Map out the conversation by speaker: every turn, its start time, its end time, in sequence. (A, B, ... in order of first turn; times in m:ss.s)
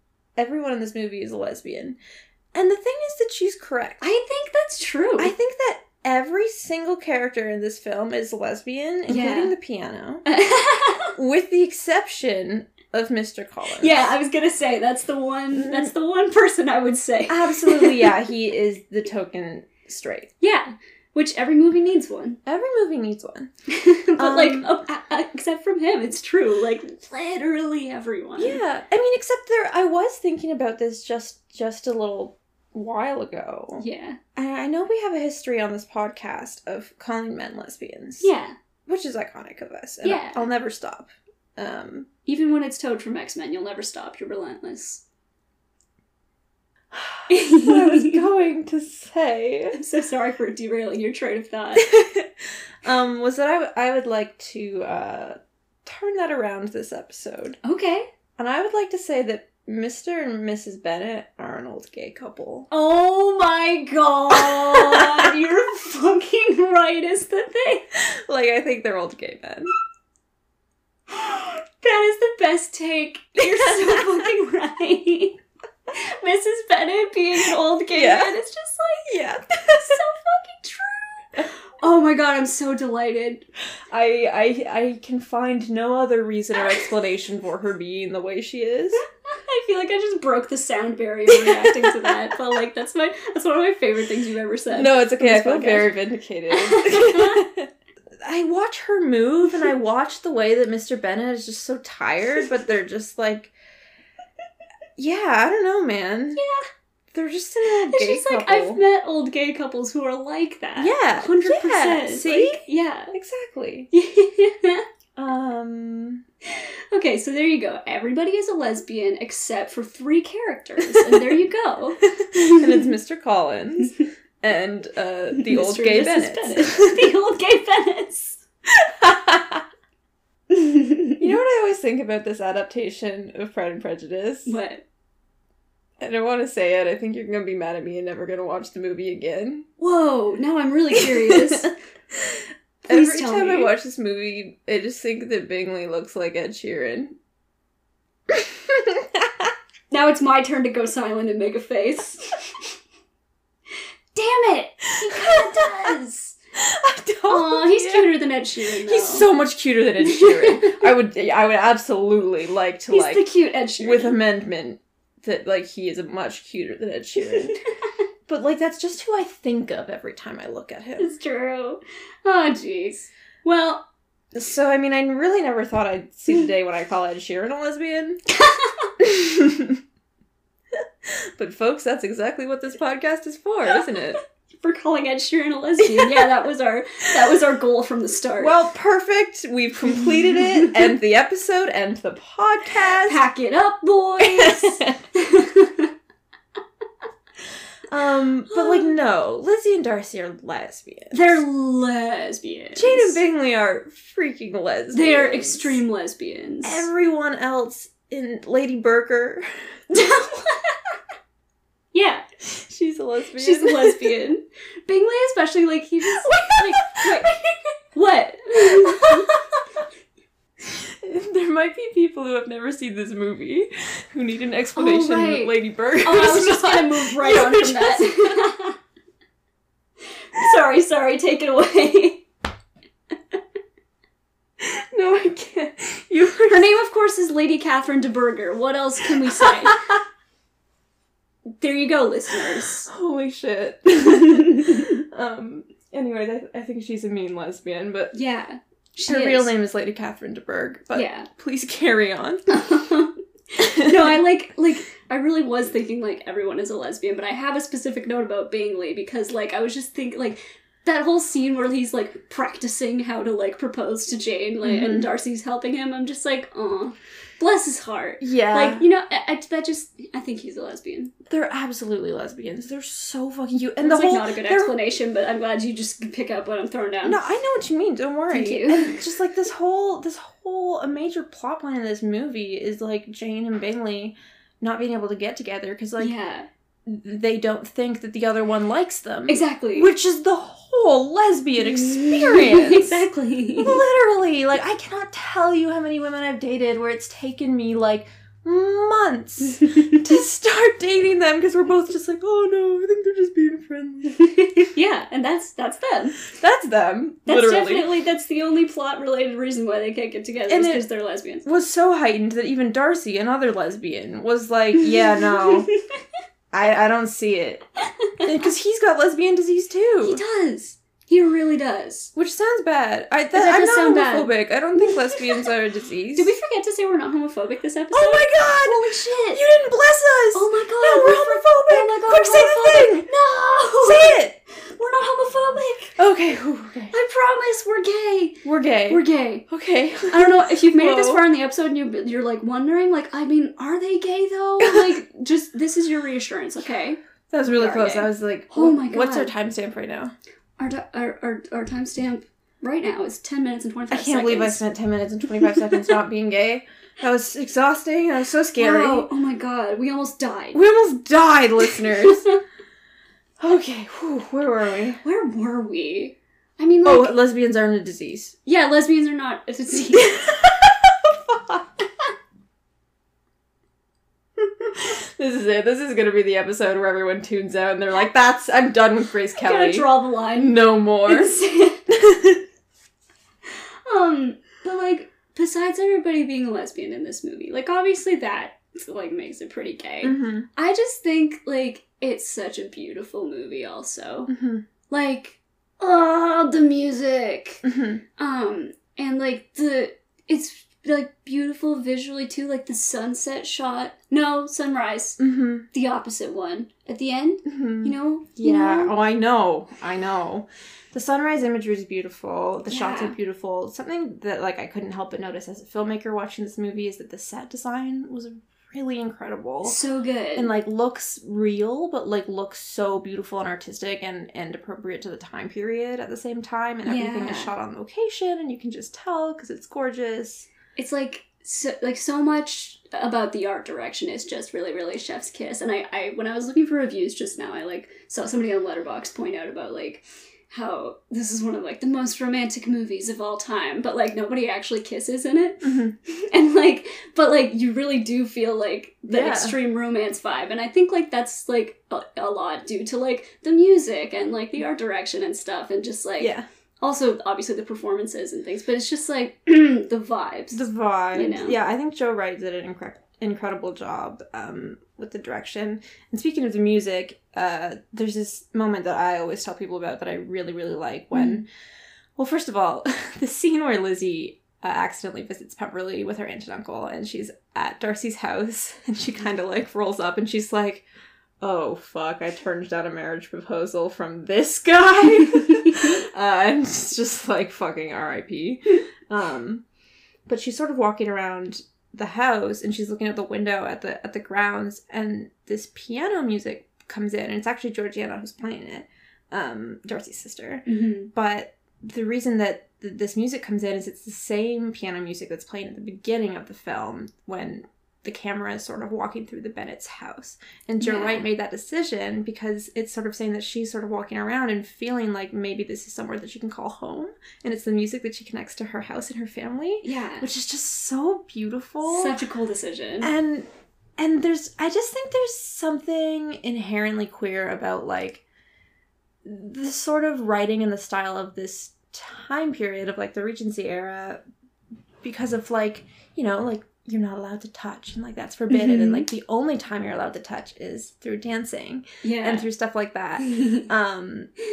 0:00.4-0:02.0 A
0:02.5-0:04.0 A
0:04.0-0:05.3 B
0:05.2-0:10.2 A
0:09.1-0:09.5 B
0:10.2-0:11.2 B
0:11.2-0:14.1 A
0:13.8-0:18.1 B
0:15.5-0:15.9 A
0:17.3-0:20.3 A
0:20.4-0:22.4 B
0:22.4-0:23.5 A
0:23.7-0:28.6 B
0:24.2-0:24.7 A
0:28.4-0:33.8 A
0:33.8-0:34.2 B
0:34.4-0:38.3 A
0:38.2-0:38.5 B
0:38.9-0:42.1 A
0:40.0-0:40.4 B
0:42.2-0:45.0 B
0:46.9-0:49.8 A
0:47.3-0:48.2 B
0:49.7-0:51.9 B
0:51.8-0:57.6 A
0:57.6-0:58.1 B
0:58.4-1:02.7 A
1:02.7-1:07.9 B
1:04.3-1:05.4 A
1:08.0-1:09.7 A
1:11.1-1:15.4 B
1:13.4-1:14.3 A
1:15.9-1:19.1 B
1:17.9-1:18.4 A
1:19.1-1:20.0 A
1:19.7-1:23.4 B
1:23.9-1:29.0 A
1:29.3-1:35.9 B
1:31.3-1:32.2 A
1:34.7-1:37.7 A
1:36.5-1:37.4 B
1:38.2-1:43.5 A
1:45.0-1:46.4 A
1:46.3-1:46.6 B
1:47.1-1:48.8 A
1:47.8-1:53.1 B
1:50.8-1:52.6 A
1:53.1-1:53.9 A
1:53.9-1:54.8 B
1:55.2-1:56.2 A
1:56.4-2:02.9 B
2:00.9-2:01.2 A
2:02.1-2:07.1 A
2:05.3-2:08.4 B
2:08.7-2:09.6 A
2:10.5-2:11.4 B
2:11.2-2:14.5 A
2:14.4-2:14.8 B
2:16.0-2:19.6 A
2:19.8-2:21.7 B
2:21.0-2:27.1 A
2:22.8-2:23.7 B
2:28.3-2:29.5 A
2:29.9-2:32.6 B
2:34.1-2:36.4 B
2:35.0-2:35.9 A
2:36.6-2:43.2 A
2:37.3-2:39.2 B
2:40.0-2:40.8 B
2:42.9-2:44.2 B
2:43.8-2:47.5 A
2:47.2-2:47.6 B
2:48.3-2:51.1 A
2:51.0-2:53.8 B
2:54.3-2:58.2 A
2:58.3-2:58.9 B
2:59.0-2:59.8 A
3:00.8-3:04.2 A
3:04.6-3:08.5 B
3:05.8-3:06.3 A
3:08.4-3:13.2 A
3:09.8-3:10.8 B
3:13.0-3:15.9 B
3:14.2-3:15.0 A
3:17.9-3:21.4 A
3:18.5-3:18.9 B
3:21.1-3:23.2 B
3:22.7-3:25.8 A
3:24.9-3:26.9 B
3:26.6-3:29.5 A
3:29.9-3:30.9 B
3:31.9-3:32.2 B
3:32.4-3:34.1 A
3:33.4-3:39.4 B
3:36.1-3:37.4 A
3:38.6-3:39.6 A
3:40.6-3:48.4 A
3:44.8-3:48.8 B
3:50.3-3:52.2 B
3:54.6-3:56.7 A
3:56.5-3:59.8 B
3:59.1-4:00.0 A
4:01.6-4:02.9 B
4:02.4-4:08.1 A
4:04.0-4:05.0 B
4:08.1-4:09.5 B
4:09.0-4:12.4 A
4:10.9-4:11.3 B
4:12.5-4:31.1 B
4:13.6-4:14.2 A
4:24.6-4:25.1 A
4:28.2-4:28.8 A
4:31.3-4:34.7 A
4:33.8-4:37.2 B
4:37.0-4:46.1 A
4:38.3-4:39.0 B
4:46.0-4:46.5 B
4:46.8-5:04.2 A
4:49.3-4:49.9 B
4:51.6-4:53.8 B
5:04.2-5:06.2 B
5:06.3-5:07.9 A
5:07.2-5:11.4 B
5:10.5-5:10.8 A
5:11.4-5:15.7 A
5:14.8-5:15.8 B
5:16.5-5:17.6 A
5:18.2-5:20.2 A
5:20.0-5:22.1 B
5:22.1-5:26.3 A
5:23.3-5:24.3 B
5:26.1-5:29.4 B
5:27.9-5:33.1 A
5:30.3-5:35.9 B
5:33.8-5:34.4 A
5:36.0-5:36.9 A
5:36.9-5:39.4 B
5:38.4-5:41.2 A
5:40.1-5:49.3 B
5:44.6-5:45.0 A
5:47.3-5:50.1 A
5:50.6-5:54.6 B
5:53.9-5:59.1 A
5:55.5-5:55.8 B
5:58.6-6:00.6 B
6:00.5-6:02.3 A
6:01.7-6:02.4 B
6:03.4-6:05.0 A
6:05.0-6:07.1 B
6:06.8-6:08.3 A
6:08.4-6:10.2 B
6:09.9-6:11.9 A
6:14.4-6:21.4 A
6:19.4-6:21.8 B
6:21.9-6:22.4 A
6:23.9-6:34.3 B
6:30.0-6:30.5 A
6:34.3-6:34.6 A
6:34.9-6:37.6 B
6:37.6-6:38.0 A
6:38.2-6:45.2 B
6:45.2-6:45.6 A
6:45.7-6:48.9 B
6:47.4-6:59.8 A
6:52.7-6:53.1 B
6:59.6-7:00.5 B
7:00.4-7:10.5 A
7:06.8-7:07.5 B
7:10.8-7:41.6 B
7:25.6-7:25.9 A
7:29.1-7:29.6 A
7:36.2-7:36.4 A
7:40.5-7:51.4 A
7:51.1-7:51.4 B
7:52.2-8:00.8 A
8:01.4-8:09.6 A
8:10.3-8:42.2 A
8:20.6-8:21.1 B
8:30.8-8:31.2 B
8:39.8-8:40.3 B
8:41.8-8:43.1 B
8:43.0-8:43.5 A
8:44.0-8:48.2 A
8:49.2-8:54.2 A
8:55.0-9:04.3 A
8:58.5-8:59.1 B
9:02.0-9:02.5 B
9:03.2-9:03.6 B